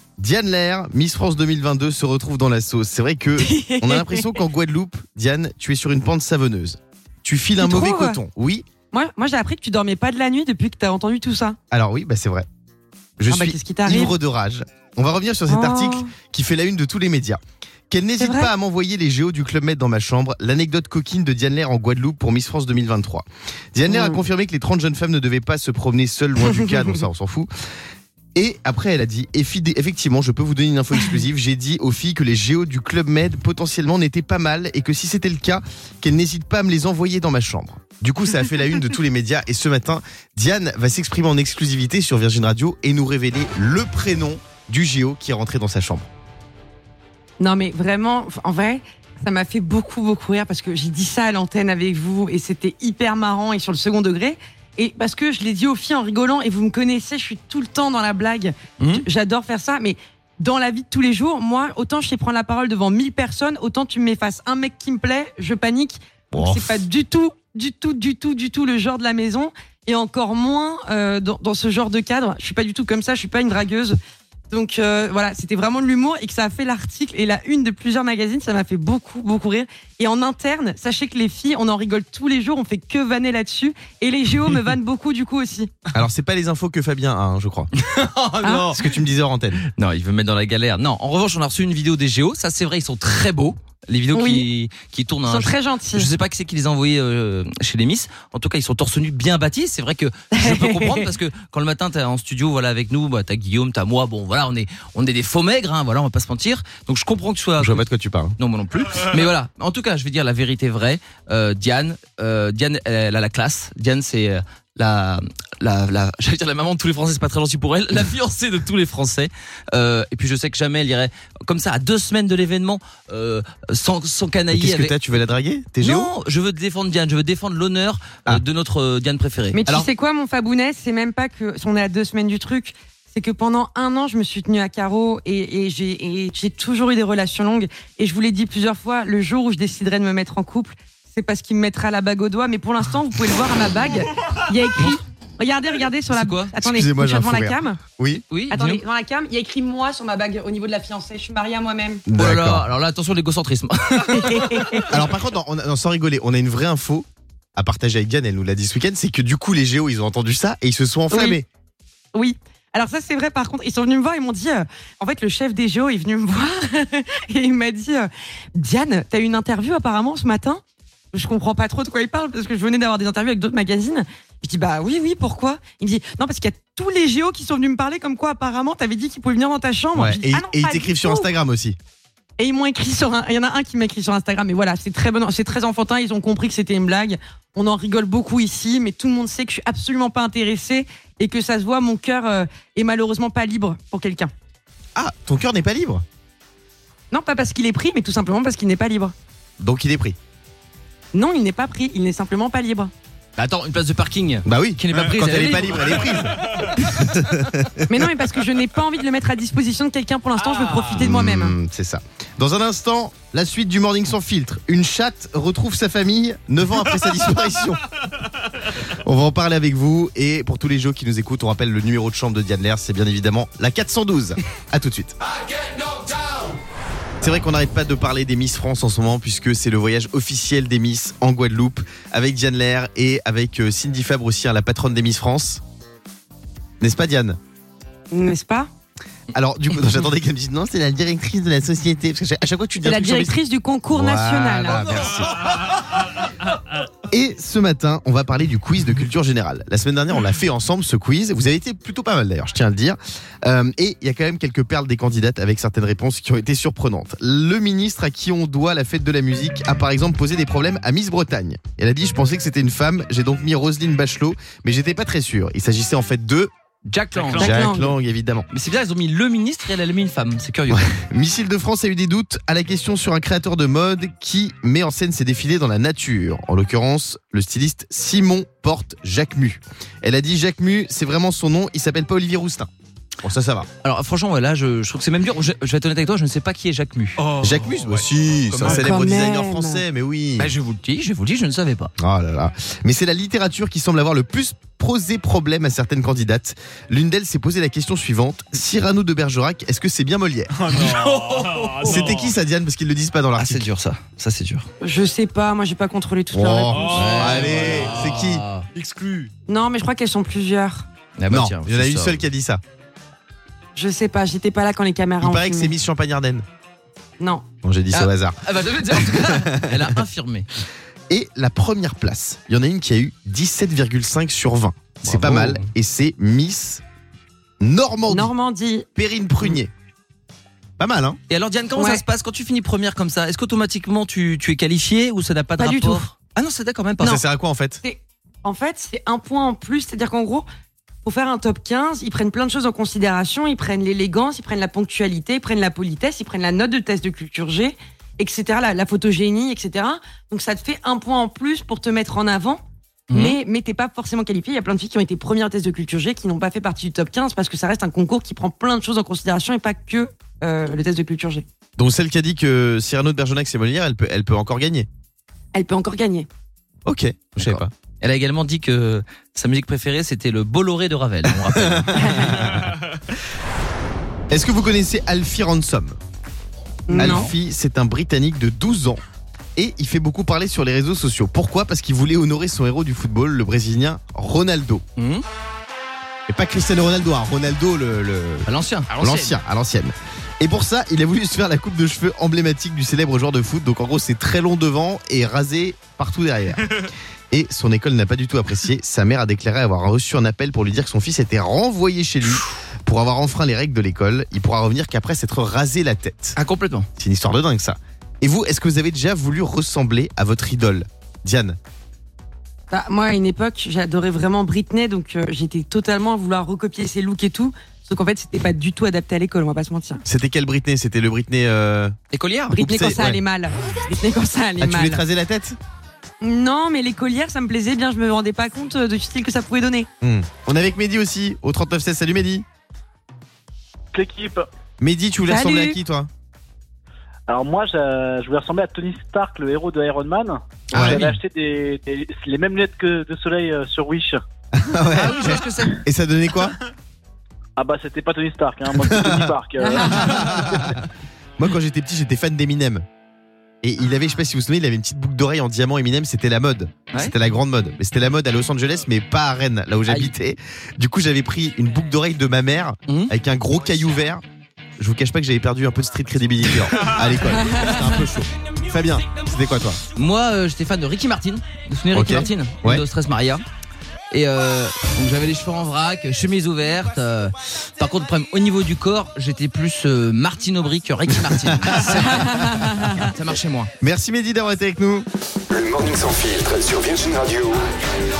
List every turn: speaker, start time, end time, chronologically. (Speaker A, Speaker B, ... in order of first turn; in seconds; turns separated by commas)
Speaker A: 0.2-8.7, Speaker B: 3.4-4.4, Speaker B: 7.6-8.2, Speaker B: 8.9-11.6, Speaker A: 11.7-12.4, Speaker A: 13.2-27.5, Speaker B: 13.3-14.1, Speaker B: 15.5-16.1, Speaker B: 18.2-18.5, Speaker B: 23.9-24.2, Speaker A: 28.3-46.1, Speaker B: 47.4-74.0, Speaker A: 66.3-66.7, Speaker B: 74.5-85.7, Speaker A: 85.9-87.7, Speaker C: 87.8-88.8, Speaker B: 88.4-88.7, Speaker A: 88.7-89.6, Speaker C: 89.7-107.8, Speaker B: 94.1-94.5, Speaker B: 95.2-96.1, Speaker B: 100.4-101.1, Speaker A: 107.6-108.3, Speaker C: 108.4-124.9, Speaker A: 124.5-126.1, Speaker C: 125.8-129.7, Speaker B: 129.5-147.8, Speaker C: 146.1-146.5, Speaker A: 146.6-148.2, Speaker C: 148.3-148.8, Speaker B: 148.5-152.0, Speaker A: 152.1-152.7, Speaker C: 152.2-154.9, Speaker B: 154.1-154.9, Speaker A: 154.8-161.4, Speaker B: 161.1-161.4, Speaker B: 162.1-170.6, Speaker B: 171.1-181.3, Speaker A: 179.9-181.8, Speaker B: 182.4-194.3, Speaker A: 194.9-196.0, Speaker B: 197.1-199.1, Speaker A: 199.6-200.2, Speaker B: 201.1-202.9, Speaker C: 203.4-206.8, Speaker A: 204.4-207.9, Speaker B: 207.9-211.6, Speaker A: 210.8-217.8, Speaker A: 218.7-225.2, Speaker A: 227.2-235.6, Speaker A: 236.8-237.4, Speaker B: 238.1-238.7, Speaker A: 239.3-243.3, Speaker B: 242.8-245.2, Speaker A: 243.9-245.6, Speaker A: 247.1-266.5, Speaker C: 266.9-267.6, Speaker A: 267.3-268.4, Speaker B: 267.3-268.0, Speaker C: 268.5-270.9, Speaker A: 270.7-282.7, Speaker A: 283.2-283.7, Speaker C: 283.8-287.3, Speaker D: 287.3-287.7, Speaker A: 287.4-290.5, Speaker C: 288.5-288.9, Speaker B: 288.7-289.8, Speaker C: 290.4-291.9, Speaker A: 292.0-300.7, Speaker D: 300.7-302.2, Speaker C: 300.7-302.2, Speaker A: 301.8-303.6, Speaker C: 303.4-304.6, Speaker B: 304.8-307.1, Speaker A: 306.3-308.4, Speaker C: 306.9-308.6, Speaker D: 307.0-307.9, Speaker D: 308.8-309.3, Speaker B: 309.5-310.9, Speaker C: 311.2-312.2, Speaker A: 311.3-312.6, Speaker B: 313.7-315.7, Speaker A: 315.2-316.4, Speaker B: 317.2-317.4, Speaker A: 317.6-319.9, Speaker C: 317.9-320.5, Speaker A: 321.1-326.8, Speaker C: 325.0-325.7, Speaker A: 327.6-328.3, Speaker B: 328.1-328.9, Speaker A: 328.9-329.7, Speaker A: 330.8-331.2, Speaker C: 331.3-337.2, Speaker B: 331.7-332.0, Speaker B: 335.6-336.1, Speaker A: 337.0-337.8, Speaker B: 337.8-340.4, Speaker B: 341.0-352.6, Speaker C: 353.1-353.4, Speaker B: 353.1-361.4, Speaker A: 361.8-364.9, Speaker B: 365.5-366.3, Speaker A: 366.8-367.7, Speaker C: 367.4-372.6, Speaker A: 371.6-372.7, Speaker B: 371.9-372.5, Speaker A: 374.3-376.0, Speaker B: 376.9-377.3, Speaker C: 376.9-377.3, Speaker A: 376.9-379.0, Speaker A: 379.6-384.8, Speaker C: 385.0-385.2, Speaker A: 386.3-406.4, Speaker C: 388.5-389.4, Speaker C: 406.4-406.9, Speaker A: 407.0-411.6, Speaker B: 412.7-420.0, Speaker A: 420.1-421.9, Speaker C: 422.1-422.5, Speaker B: 422.5-425.0, Speaker A: 422.6-423.2, Speaker A: 424.6-425.6, Speaker B: 426.2-429.9, Speaker A: 430.0-432.4, Speaker E: 433.9-434.5, Speaker A: 434.8-436.1, Speaker B: 435.3-435.8, Speaker E: 437.3-444.2, Speaker A: 440.7-441.1, Speaker C: 440.8-441.1, Speaker A: 444.5-446.5, Speaker C: 444.9-445.8, Speaker E: 447.6-450.4, Speaker A: 448.9-450.8, Speaker B: 449.6-450.3, Speaker C: 450.3-450.7, Speaker A: 451.4-452.8, Speaker A: 453.6-464.2, Speaker C: 459.9-460.1, Speaker A: 464.8-469.8, Speaker C: 469.9-473.4, Speaker A: 471.9-472.8, Speaker C: 474.1-483.7, Speaker A: 481.6-483.0, Speaker B: 482.3-482.7, Speaker A: 483.8-485.0, Speaker F: 485.5-487.7